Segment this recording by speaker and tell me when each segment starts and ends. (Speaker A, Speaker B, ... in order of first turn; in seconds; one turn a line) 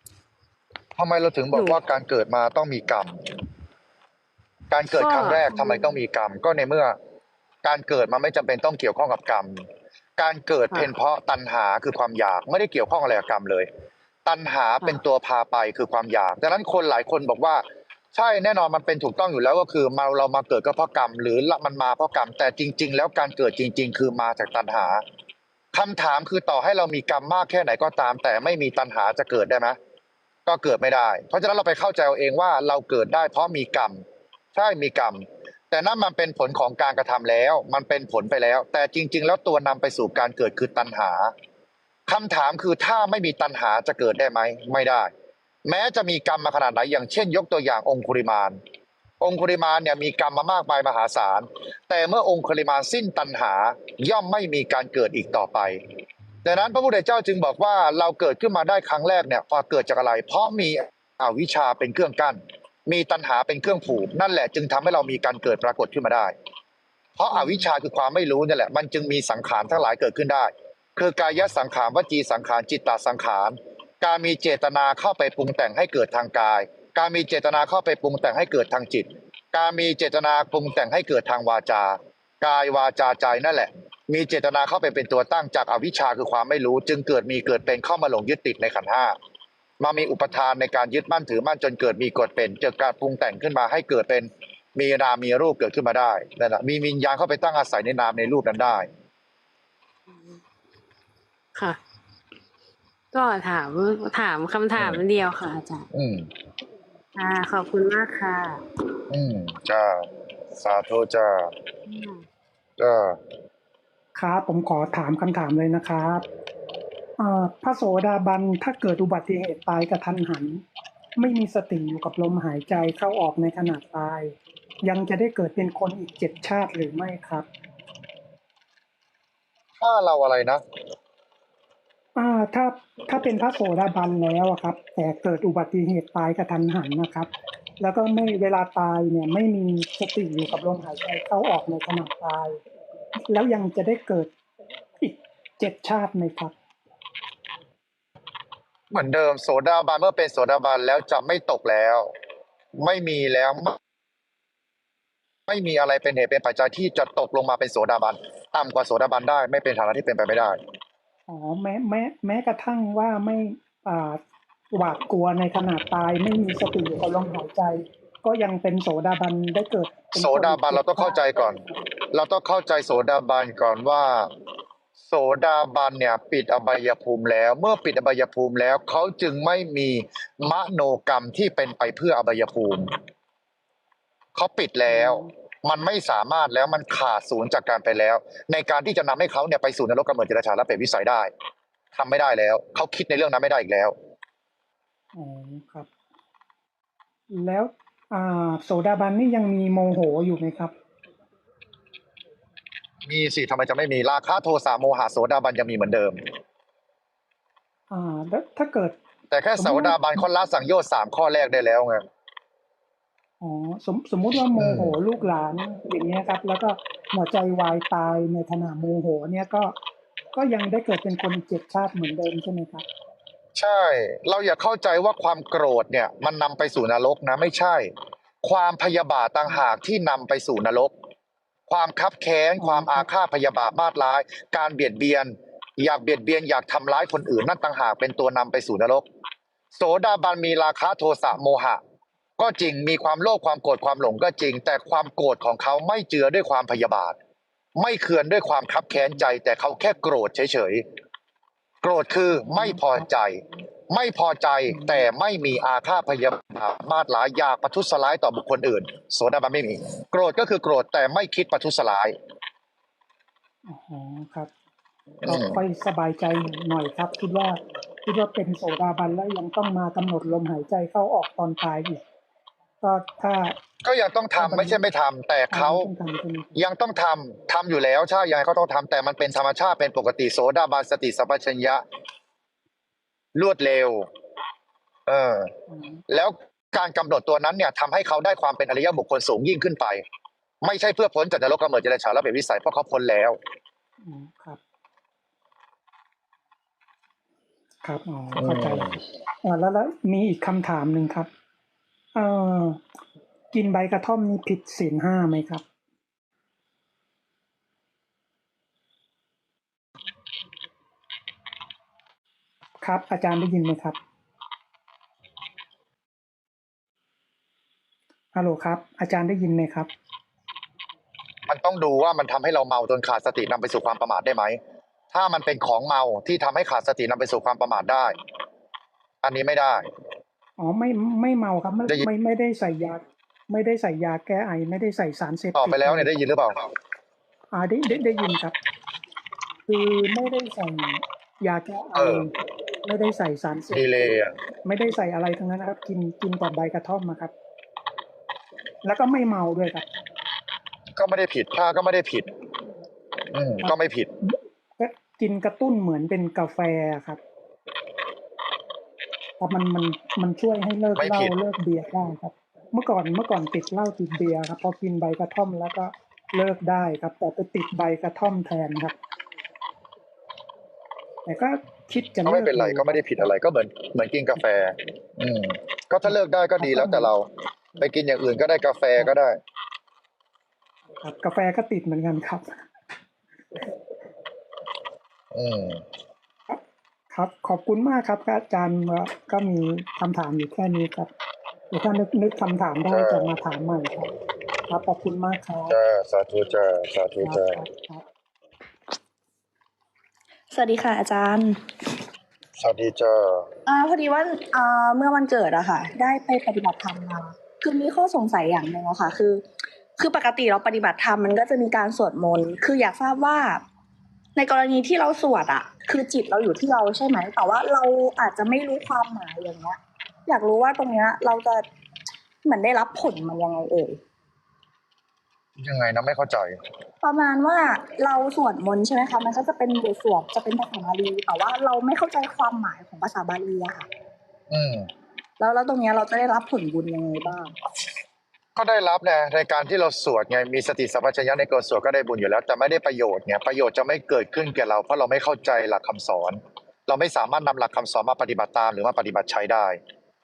Speaker A: 1.0-3.2
Speaker B: 1.5-1.8
Speaker A: 4.7-7.0
Speaker B: 4.9-6.0
Speaker A: 7.6-9.7
Speaker A: 10.2-13.7
Speaker A: 14.2-25.0
Speaker A: 25.7-29.8
Speaker A: 30.4-34.0
Speaker A: 34.5-41.3
Speaker A: 42.1-45.1
Speaker A: 45.6-48.6
Speaker A: 49.2-55.8
Speaker A: 56.4-66.3
Speaker A: 67.2-89.2
Speaker A: 89.8-98.9
Speaker B: 103.1-105.8
Speaker A: 104.8-105.0
Speaker A: 105.9-106.3
Speaker B: 107.1-108.6
Speaker A: 109.1-111.5
Speaker B: 111.9-112.2
Speaker A: 112.8-113.2
Speaker C: 114.2-116.2
Speaker C: 117.2-120.6
Speaker C: 121.2-127.5
Speaker A: 129.8-130.6
Speaker C: 132.2-137.3
Speaker C: 137.8-142.6
Speaker C: 143.3-144.3
Speaker C: 145.0-146.5
Speaker A: 148.9-152.1
Speaker A: 152.8-153.8
Speaker A: 155.5-160.6
Speaker C: 161.3-164.2
Speaker C: 164.7-171.2
Speaker A: 170.1-171.6
Speaker A: 172.1-174.3
Speaker A: 175.0-182.9
Speaker A: 184.3-191.3
Speaker C: 184.9-185.3
Speaker A: 191.9-193.9
Speaker C: 195.2-195.9
Speaker C: 197.3-200.7
Speaker A: 203.0-206.2
Speaker C: 207.9-208.9
Speaker A: 209.3-212.1
Speaker C: 209.6-210.2
Speaker C: 213.4-219.7
Speaker A: 214.6-214.9
Speaker C: 220.3-222.8
Speaker A: 223.5-227.9
Speaker A: 228.4-230.9
Speaker A: 231.7-239.1
Speaker C: 232.6-233.1
Speaker A: 239.7-241.8
Speaker A: 242.4-247.2
Speaker A: 247.8-250.8
Speaker A: 251.8-262.2
Speaker C: 254.7-255.0
Speaker C: 263.6-264.5
Speaker A: 265.2-265.6
Speaker C: 265.2-272.0
Speaker C: 272.8-273.5
Speaker A: 273.8-275.9
Speaker C: 274.4-274.8
Speaker C: 275.5-276.6
Speaker A: 276.5-281.8
Speaker A: 283.3-284.1
Speaker A: 285.1-285.5
Speaker C: 285.7-286.0
Speaker A: 286.1-290.0
Speaker A: 290.6-293.4
Speaker C: 294.0-294.6
Speaker C: 297.8-298.9
Speaker A: 298.4-299.0
Speaker C: 299.4-301.3
Speaker C: 302.1-302.8
Speaker C: 303.5-305.6
Speaker C: 312.8-314.0
Speaker C: 318.3-319.9
Speaker A: 321.5-324.6
Speaker A: 325.1-328.1
Speaker A: 329.2-329.9
Speaker C: 330.6-336.1
Speaker A: 335.5-336.7
Speaker C: 337.5-338.6
Speaker C: 339.7-342.3
Speaker A: 341.9-342.3
Speaker C: 342.8-343.8
Speaker A: 343.7-344.3
Speaker C: 344.6-347.3
Speaker C: 348.8-349.9
Speaker A: 350.9-352.3
Speaker A: 353.3-354.1
Speaker C: 354.3-357.2
Speaker C: 359.4-368.9
Speaker A: 360.9-361.3
Speaker C: 371.2-373.2
Speaker A: 372.2-379.4
Speaker C: 376.6-377.1
Speaker C: 381.0-382.4
Speaker A: 385.3-385.8
Speaker C: 386.5-391.1
Speaker C: 391.7-394.1
Speaker A: 392.9-393.3
Speaker C: 394.7-395.8
Speaker A: 395.7-397.6
Speaker C: 397.2-398.0
Speaker D: 400.5-401.6
Speaker A: 402.6-403.5
Speaker D: 403.6-409.4
Speaker D: 410.0-413.6
Speaker D: 414.4-421.6
Speaker D: 422.4-424.0
Speaker A: 425.6-426.6
Speaker D: 427.0-433.9
Speaker A: 434.5-434.9
Speaker D: 435.4-437.5
Speaker A: 438.6-449.8